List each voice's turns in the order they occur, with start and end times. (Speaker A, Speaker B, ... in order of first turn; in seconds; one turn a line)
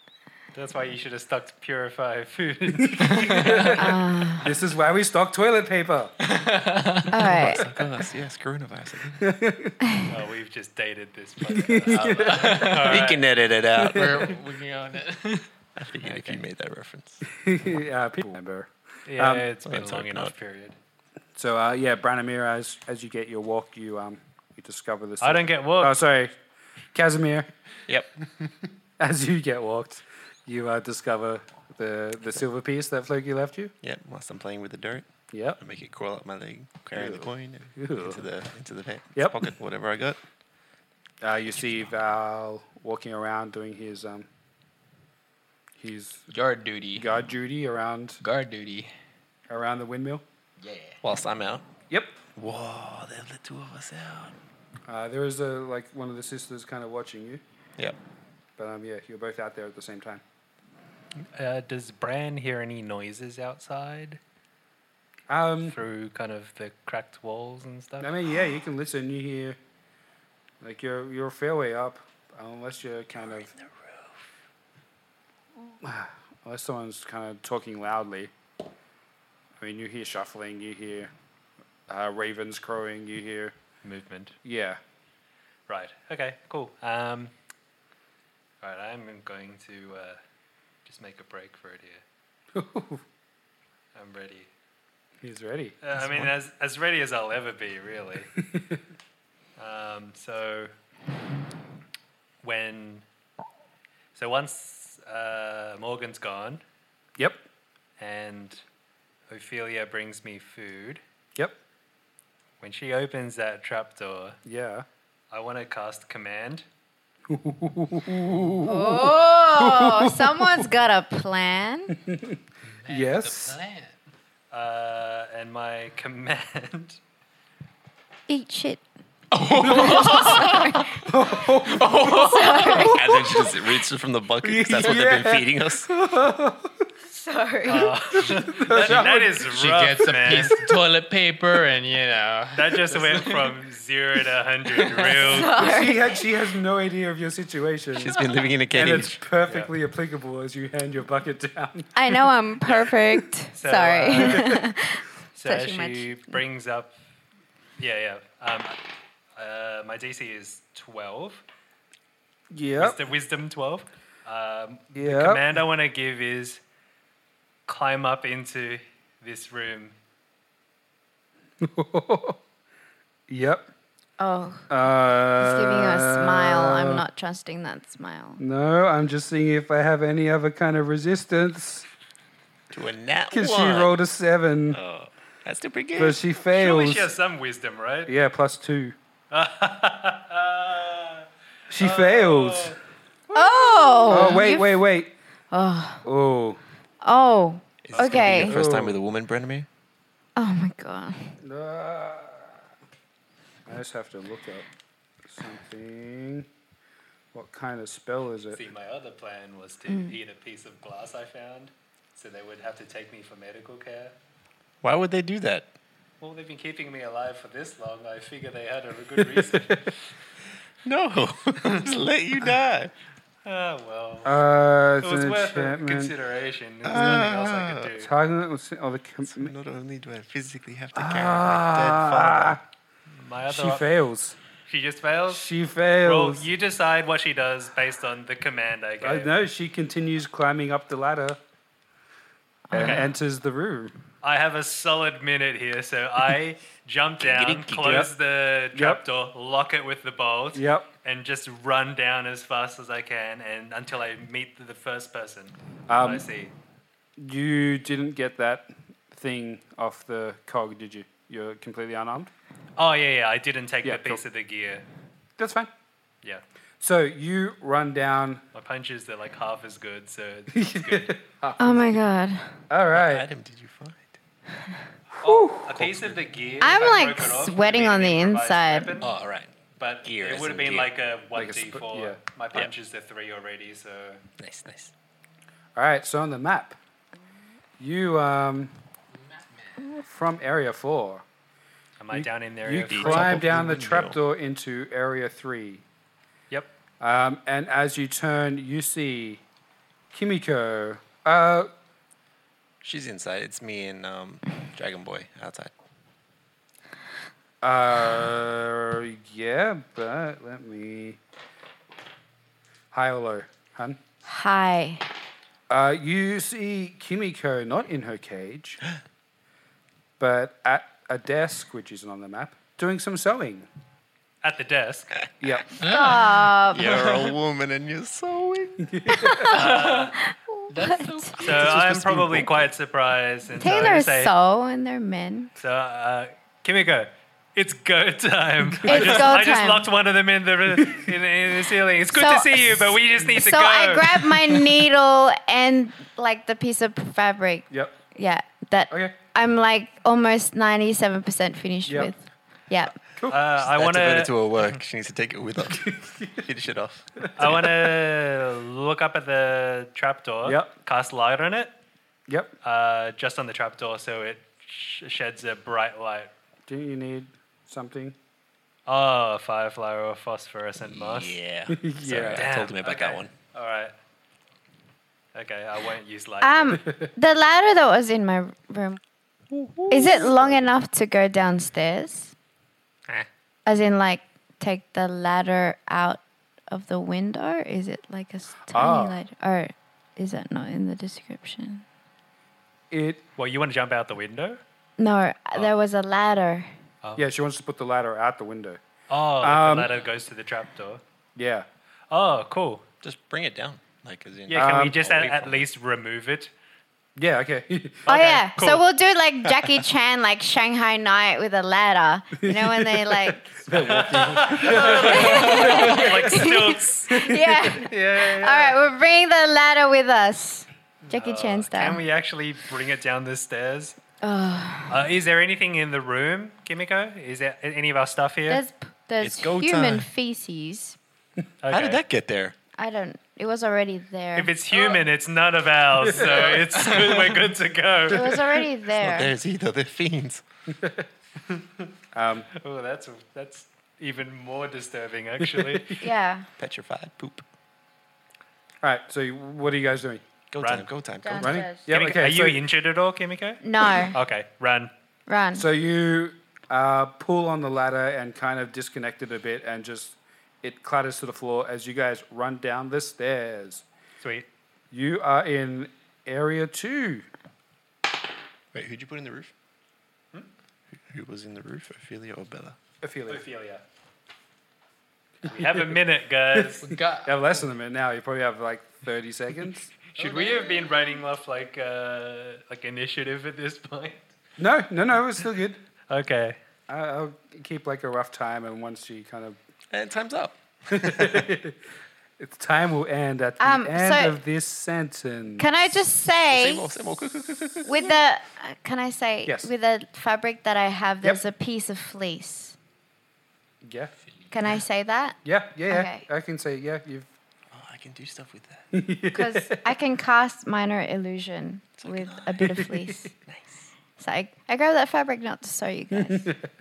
Speaker A: 0.5-3.8
Speaker B: 2.7-6.1
Speaker C: 3.8-4.5
Speaker D: 6.3-7.1
Speaker C: 7.1-7.6
Speaker E: 7.2-9.3
Speaker B: 9.2-9.8
Speaker A: 10.1-13.3
Speaker B: 11.4-12.6
Speaker E: 11.9-14.4
Speaker D: 12.0-12.9
Speaker B: 13.8-14.3
Speaker D: 13.9-15.5
Speaker E: 15.8-17.2
Speaker A: 16.1-16.4
Speaker B: 17.3-19.4
Speaker A: 19.1-20.7
Speaker E: 19.6-20.3
Speaker B: 21.4-26.3
Speaker A: 25.2-26.0
Speaker B: 26.9-27.5
Speaker E: 27.9-28.5
Speaker B: 29.0-33.7
Speaker E: 33.8-35.1
Speaker B: 35.3-35.6
Speaker E: 35.6-40.2
Speaker B: 36.9-38.2
Speaker B: 39.1-39.5
Speaker B: 41.2-44.3
Speaker E: 41.5-41.9
Speaker B: 45.8-46.3
Speaker D: 46.3-47.1
Speaker B: 46.9-48.2
Speaker D: 48.2-48.9
Speaker B: 49.5-50.2
Speaker D: 50.6-51.0
Speaker E: 51.0-51.6
Speaker B: 51.9-52.2
Speaker E: 52.4-54.3
Speaker B: 54.9-57.4
Speaker B: 58.6-60.2
Speaker A: 61.3-64.2
Speaker B: 65.3-65.8
Speaker A: 65.7-68.1
Speaker B: 68.0-69.6
Speaker B: 70.6-73.5
Speaker B: 75.8-78.3
Speaker B: 79.6-81.1
Speaker B: 81.9-83.5
Speaker A: 83.8-84.3
Speaker B: 84.4-84.8
Speaker A: 85.7-87.3
Speaker A: 88.6-90.2
Speaker A: 90.8-92.0
Speaker B: 92.5-93.0
Speaker A: 93.9-94.5
Speaker B: 95.2-96.3
Speaker A: 95.8-98.3
Speaker B: 98.3-98.8
Speaker A: 99.6-100.7
Speaker A: 102.4-103.0
Speaker A: 104.1-106.6
Speaker B: 107.2-107.4
Speaker A: 108.0-108.6
Speaker A: 109.3-111.0
Speaker A: 112.6-114.4
Speaker B: 114.5-114.8
Speaker A: 115.3-116.6
Speaker B: 117.3-120.7
Speaker C: 118.6-122.0
Speaker B: 121.9-123.6
Speaker D: 122.8-124.0
Speaker A: 124.5-127.0
Speaker C: 128.3-128.8
Speaker D: 129.3-130.9
Speaker C: 129.6-131.0
Speaker B: 129.6-130.4
Speaker B: 131.0-133.2
Speaker D: 131.6-132.9
Speaker C: 132.2-133.2
Speaker E: 132.8-135.9
Speaker B: 134.4-136.9
Speaker C: 137.1-138.2
Speaker A: 137.7-140.6
Speaker B: 138.2-139.4
Speaker D: 139.4-143.6
Speaker B: 140.3-140.6
Speaker A: 142.5-145.7
Speaker D: 144.7-145.3
Speaker C: 145.2-146.1
Speaker B: 145.6-148.2
Speaker E: 147.9-149.2
Speaker B: 148.7-152.2
Speaker A: 149.4-149.7
Speaker C: 151.9-156.3
Speaker A: 153.5-154.6
Speaker B: 154.1-154.6
Speaker A: 155.3-156.9
Speaker A: 157.8-158.8
Speaker A: 159.3-161.4
Speaker B: 162.5-163.0
Speaker A: 162.8-166.6
Speaker B: 164.9-165.4
Speaker A: 167.7-169.9
Speaker B: 171.6-172.4
Speaker B: 173.3-173.7
Speaker C: 174.2-174.7
Speaker B: 174.7-177.0
Speaker C: 175.3-178.4
Speaker B: 178.4-181.9
Speaker E: 182.7-183.9
Speaker B: 183.3-184.8
Speaker E: 184.7-186.2
Speaker B: 185.9-187.1
Speaker A: 186.5-188.1
Speaker B: 188.1-188.9
Speaker A: 189.3-191.2
Speaker B: 191.7-192.8
Speaker A: 191.8-192.8
Speaker B: 193.3-195.1
Speaker C: 193.3-194.8
Speaker C: 195.5-196.1
Speaker B: 196.0-196.6
Speaker C: 197.0-198.6
Speaker E: 197.8-199.7
Speaker B: 198.0-199.0
Speaker C: 200.3-201.4
Speaker B: 201.4-202.6
Speaker B: 203.7-204.7
Speaker B: 205.2-206.5
Speaker B: 207.3-208.6
Speaker A: 208.5-214.1
Speaker E: 214.8-215.7
Speaker A: 216.2-219.9
Speaker B: 219.3-219.7
Speaker E: 220.8-222.9
Speaker A: 223.4-224.3
Speaker B: 224.2-226.1
Speaker A: 225.0-228.1
Speaker E: 226.8-227.9
Speaker B: 226.9-227.2
Speaker B: 227.9-229.5
Speaker E: 229.3-232.6
Speaker B: 230.9-232.6
Speaker A: 233.2-233.9
Speaker B: 233.5-234.4
Speaker A: 234.7-235.4
Speaker B: 235.3-236.5
Speaker A: 236.0-239.3
Speaker B: 239.0-241.4
Speaker B: 242.7-243.9
Speaker A: 242.7-243.1
Speaker A: 244.2-256.5
Speaker E: 247.2-248.1
Speaker B: 247.8-248.1
Speaker B: 248.7-249.0
Speaker B: 250.5-250.9
Speaker B: 255.9-256.3
Speaker B: 257.2-262.3
Speaker A: 262.8-264.8
Speaker B: 263.8-264.2
Speaker B: 265.4-265.7
Speaker B: 266.8-268.4
Speaker A: 268.5-271.2
Speaker B: 270.5-271.9
Speaker C: 271.6-272.6
Speaker B: 272.7-273.3
Speaker E: 272.9-274.2
Speaker B: 275.2-275.8
Speaker A: 275.2-279.1
Speaker E: 275.8-276.1
Speaker C: 276.6-278.9
Speaker E: 279.0-280.9
Speaker A: 279.8-284.2
Speaker B: 281.3-282.2
Speaker E: 284.4-284.9
Speaker B: 285.8-286.8
Speaker B: 287.8-288.7
Speaker D: 289.3-289.8
Speaker B: 290.0-291.2
Speaker A: 292.0-293.4
Speaker B: 292.1-295.8
Speaker E: 292.9-294.2
Speaker B: 297.0-299.4
Speaker B: 300.1-301.7
Speaker E: 302.8-305.7
Speaker B: 307.6-311.2
Speaker B: 312.9-314.0
Speaker C: 314.2-315.1
Speaker B: 315.7-318.8
Speaker B: 320.2-323.7
Speaker A: 324.4-325.2
Speaker B: 325.4-325.7
Speaker C: 325.8-327.0
Speaker D: 325.8-327.3
Speaker E: 326.7-329.1
Speaker B: 328.9-329.4
Speaker C: 329.2-329.5
Speaker A: 329.5-330.2
Speaker D: 329.5-330.1
Speaker C: 330.2-331.3
Speaker D: 330.7-331.9
Speaker A: 331.4-334.3
Speaker E: 331.5-332.7
Speaker C: 333.6-335.5
Speaker A: 335.6-344.6
Speaker B: 338.8-339.3
Speaker C: 338.8-339.9
Speaker B: 340.8-341.1
Speaker C: 342.1-352.9
Speaker B: 347.7-348.0
Speaker B: 351.9-352.1
Speaker A: 353.3-354.8
Speaker E: 353.6-357.7
Speaker B: 355.7-356.3
Speaker A: 357.4-361.7
Speaker B: 360.4-360.7
Speaker B: 362.3-362.5
Speaker A: 362.6-366.3
Speaker B: 366.7-368.1
Speaker A: 368.9-371.4
Speaker E: 370.8-373.3
Speaker B: 371.7-372.4
Speaker A: 372.3-373.9
Speaker A: 375.3-376.8
Speaker C: 376.4-379.0
Speaker E: 379.5-380.6
Speaker C: 379.9-382.3
Speaker C: 383.6-391.8
Speaker B: 388.7-389.2
Speaker B: 392.9-393.2
Speaker A: 393.4-394.6
Speaker C: 395.0-396.7
Speaker B: 397.1-398.8
Speaker A: 399.1-401.0
Speaker B: 399.4-399.9
Speaker B: 401.4-401.7
Speaker A: 402.1-402.8
Speaker E: 403.0-405.7
Speaker A: 404.5-406.5
Speaker B: 404.5-405.0
Speaker B: 407.1-408.2
Speaker A: 408.1-408.8
Speaker C: 408.1-413.6
Speaker B: 412.4-417.8
Speaker A: 413.7-418.8
Speaker C: 414.8-422.0
Speaker A: 421.1-424.0
Speaker C: 424.2-425.0
Speaker A: 424.9-428.6
Speaker C: 428.5-431.0
Speaker E: 429.2-430.1
Speaker A: 431.6-432.0
Speaker E: 431.7-432.5
Speaker C: 432.8-434.6
Speaker A: 434.3-438.4
Speaker B: 436.0-437.2
Speaker C: 438.1-439.3
Speaker E: 438.9-440.4
Speaker B: 440.7-441.1
Speaker B: 442.1-442.5
Speaker A: 442.5-446.0
Speaker B: 445.5-445.8
Speaker C: 446.0-446.5
Speaker E: 446.6-447.4
Speaker B: 448.8-450.2
Speaker E: 450.5-451.7
Speaker A: 450.6-450.9
Speaker C: 451.2-451.9
Speaker B: 451.4-452.6
Speaker A: 451.9-454.9
Speaker C: 453.6-454.1
Speaker C: 455.3-455.6
Speaker B: 455.5-463.8
Speaker A: 464.2-464.5
Speaker B: 464.9-467.3
Speaker E: 468.7-469.5
Speaker E: 471.0-472.8
Speaker B: 473.0-473.4
Speaker A: 473.3-473.8
Speaker B: 475.4-476.0
Speaker A: 475.4-476.9
Speaker B: 476.5-480.2
Speaker D: 476.8-477.6
Speaker A: 480.1-484.3
Speaker D: 480.2-480.8
Speaker B: 484.6-485.8
Speaker A: 486.1-486.6
Speaker B: 486.9-489.6
Speaker E: 489.9-491.5
Speaker B: 490.9-491.8
Speaker B: 492.4-495.7
Speaker C: 493.6-494.4
Speaker C: 495.6-496.9
Speaker E: 496.5-498.1
Speaker C: 497.8-502.8
Speaker B: 503.8-504.1
Speaker C: 504.5-506.2
Speaker B: 505.4-507.3
Speaker E: 507.7-508.9
Speaker B: 508.9-509.8
Speaker C: 509.3-513.3
Speaker E: 512.0-512.8
Speaker E: 513.4-513.9
Speaker C: 514.1-516.5
Speaker B: 516.2-516.6